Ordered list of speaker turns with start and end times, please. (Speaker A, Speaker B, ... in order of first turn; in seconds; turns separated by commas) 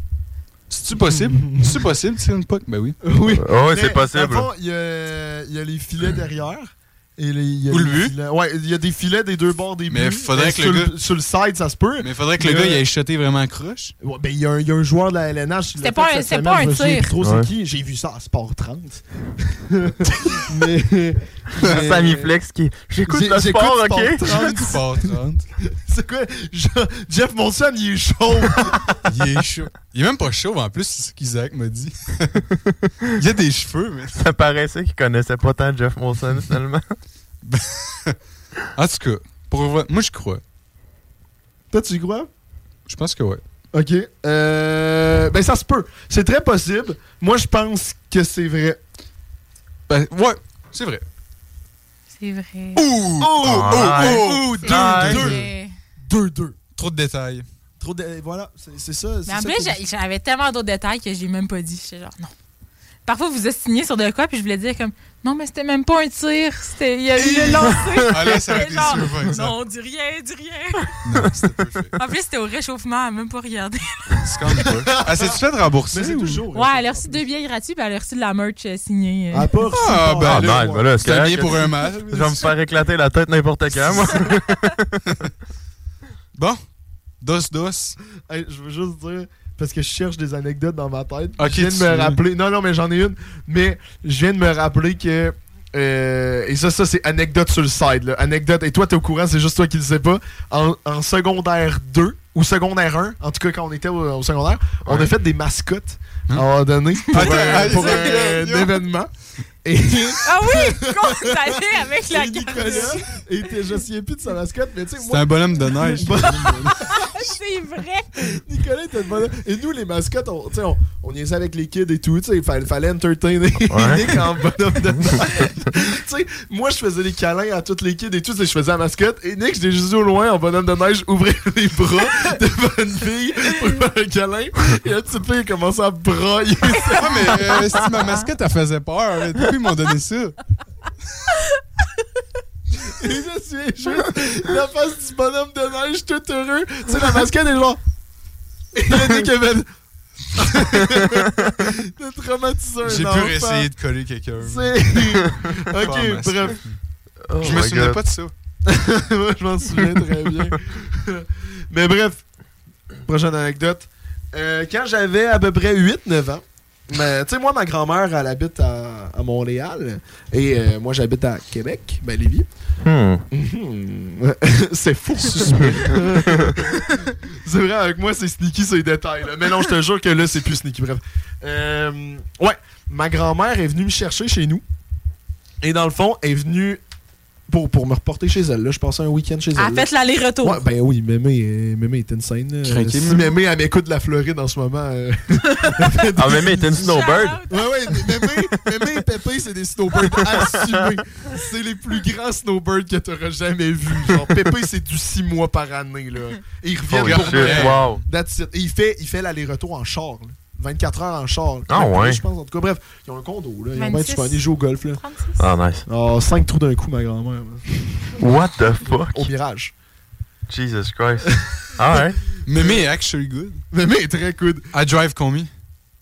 Speaker A: 0.7-3.0, Speaker B: 1.1-1.8, Speaker B: 3.0-12.8, Speaker C: 3.3-4.5, Speaker A: 7.7-8.1, Speaker A: 9.9-10.9, Speaker A: 12.0-13.9, Speaker B: 14.0-22.3, Speaker D: 15.8-17.1, Speaker C: 17.2-17.5, Speaker C: 21.6-24.6, Speaker B: 23.1-25.1, Speaker A: 24.3-25.4, Speaker B: 25.7-29.0, Speaker A: 29.1-32.4, Speaker A: 33.2-34.2, Speaker C: 34.2-37.0, Speaker A: 37.5-38.2, Speaker A: 38.8-40.4, Speaker B: 41.7-42.3, Speaker A: 42.9-43.4, Speaker B: 43.7-48.8, Speaker A: 49.9-51.0, Speaker D: 52.2-52.9, Speaker A: 52.8-55.2, Speaker B: 53.2-56.6, Speaker C: 53.4-55.4, Speaker D: 54.6-55.7, Speaker A: 56.8-57.5, Speaker B: 57.8-59.8, Speaker D: 59.3-62.3, Speaker D: 63.1-71.0, Speaker A: 67.2-69.5, Speaker A: 71.0-71.9, Speaker D: 72.0-74.2, Speaker A: 74.2-76.4, Speaker B: 74.9-75.4, Speaker B: 75.9-77.3, Speaker D: 76.5-79.6, Speaker B: 79.3-81.1, Speaker A: 79.7-82.5, Speaker C: 80.2-85.1, Speaker A: 83.9-84.2, Speaker A: 87.2-88.0, Speaker B: 88.3-109.1, Speaker A: 91.4-92.2, Speaker A: 107.1-108.8, Speaker D: 107.2-108.2, Speaker B: 109.6-116.9, Speaker D: 110.2-113.1, Speaker A: 115.1-116.9, Speaker D: 116.8-118.1, Speaker B: 118.2-137.9, Speaker C: 123.7-124.2, Speaker A: 136.9-140.4, Speaker B: 142.8-147.8, Speaker B: 148.7-149.7, Speaker B: 150.3-153.7, Speaker A: 152.8-154.8, Speaker B: 154.4-156.6, Speaker A: 155.8-156.8, Speaker C: 157.3-158.0, Speaker A: 157.4-158.3, Speaker B: 158.7-162.2, Speaker B: 163.1-172.5, Speaker C: 172.8-173.2, Speaker B: 173.3-184.6, Speaker A: 175.3-176.2, Speaker C: 175.6-176.5, Speaker B: 185.6-186.8, Speaker B: 187.5-189.9, Speaker D: 189.6-190.6, Speaker B: 190.4-215.0, Speaker A: 192.7-193.3, Speaker C: 196.2-197.4, Speaker D: 196.8-198.3, Speaker C: 200.3-200.8, Speaker C: 206.9-208.0, Speaker A: 207.0-207.9, Speaker C: 211.7-212.2, Speaker D: 213.8-214.4, Speaker D: 215.0-215.4, Speaker C: 215.4-215.8, Speaker B: 215.9-218.2, Speaker C: 218.2-219.3, Speaker B: 219.0-219.7, Speaker C: 220.5-222.2, Speaker B: 221.3-222.8, Speaker A: 222.5-223.6, Speaker B: 223.7-224.7, Speaker A: 224.7-225.5